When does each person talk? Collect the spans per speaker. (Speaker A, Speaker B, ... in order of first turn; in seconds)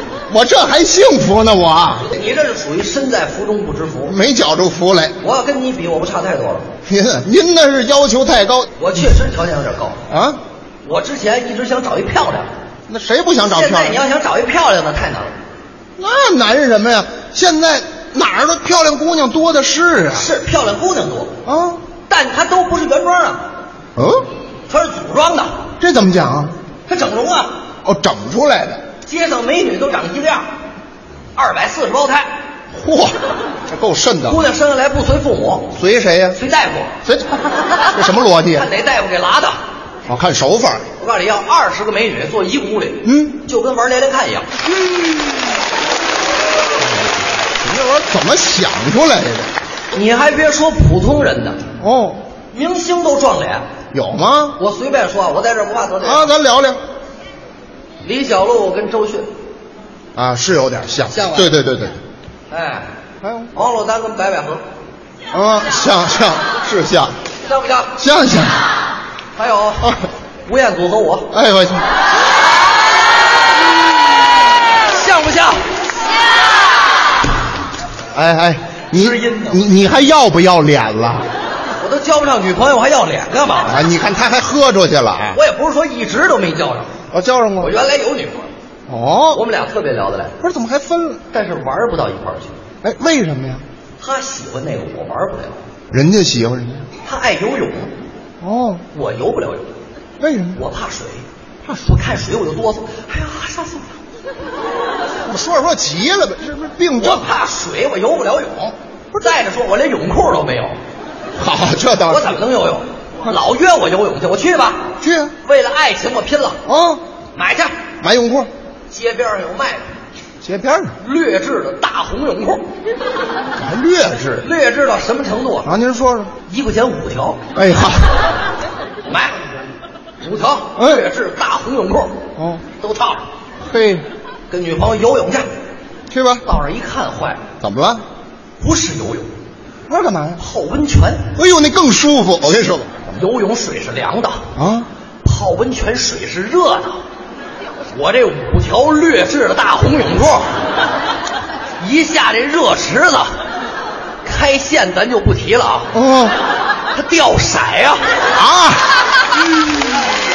Speaker A: 0.3-2.1, 4.0-5.2, 6.8-8.7, 10.1-10.4, 12.9-14.0, 16.0-20.3, 21.4-21.8, 23.9-24.2, 25.8-26.5, 27.8-28.8, 32.7-33.2, 33.7-34.4, 35.7-36.4, 37.0-38.6, 40.1-40.9, 43.0-43.4, 47.6-49.5, 51.8-52.2, 53.9-54.6, 56.0-56.8, 60.1-62.0, 63.2-63.5, 65.3-67.2, 68.0-68.6, 71.3-71.9, 78.1-81.3, 83.7-85.4, 87.1-87.7, 88.9-89.4, 90.4-91.2, 92.8-93.6, 95.9-96.9, 98.4-98.8, 100.2-100.6, 105.2-107.3, 111.4-112.3, 115.0-115.3, 116.7-117.0, 118.0-118.5, 120.4-121.0, 123.5-124.4, 125.6-126.3, 127.5-128.2, 130.8-131.0, 132.4-132.6, 133.6-134.1, 136.1-136.4, 137.6-138.0, 139.9-140.4, 141.3-143.0, 144.6-144.9, 155.9-156.3, 158.3-158.8
Speaker B: 2.1-4.2, 5.2-6.7, 8.8-10.0, 10.8-12.5, 13.4-15.3, 20.1-21.3, 22.1-23.4, 24.7-25.5, 26.9-27.5, 29.1-30.4, 31.4-32.3, 34.2-35.7, 36.3-36.9, 38.5-39.5, 41.0-44.5, 49.9-51.6, 52.5-53.6, 54.6-56.4, 58.0-59.3, 61.1-61.5, 62.5-62.9, 63.5-64.6, 67.5-68.0, 69.3-71.3, 74.9-75.6, 78.9-79.7, 81.8-83.9, 85.3-86.9, 87.6-88.5, 89.3-90.3, 91.3-92.5, 94.0-95.6, 97.0-97.9, 98.9-99.7, 100.5-103.9, 107.0-110.8, 112.0-114.9, 115.4-116.6, 117.3-117.7, 118.9-119.9, 121.0-122.6, 124.4-125.7, 126.5-127.4, 129.1-129.4, 130.2-132.2, 132.8-133.2, 134.5-135.4, 136.4-137.4, 138.6-139.3, 140.4-141.3, 143.1-144.4, 145.2-147.0, 147.9-150.5, 151.8-153.3, 154.2-155.9, 156.9-158.0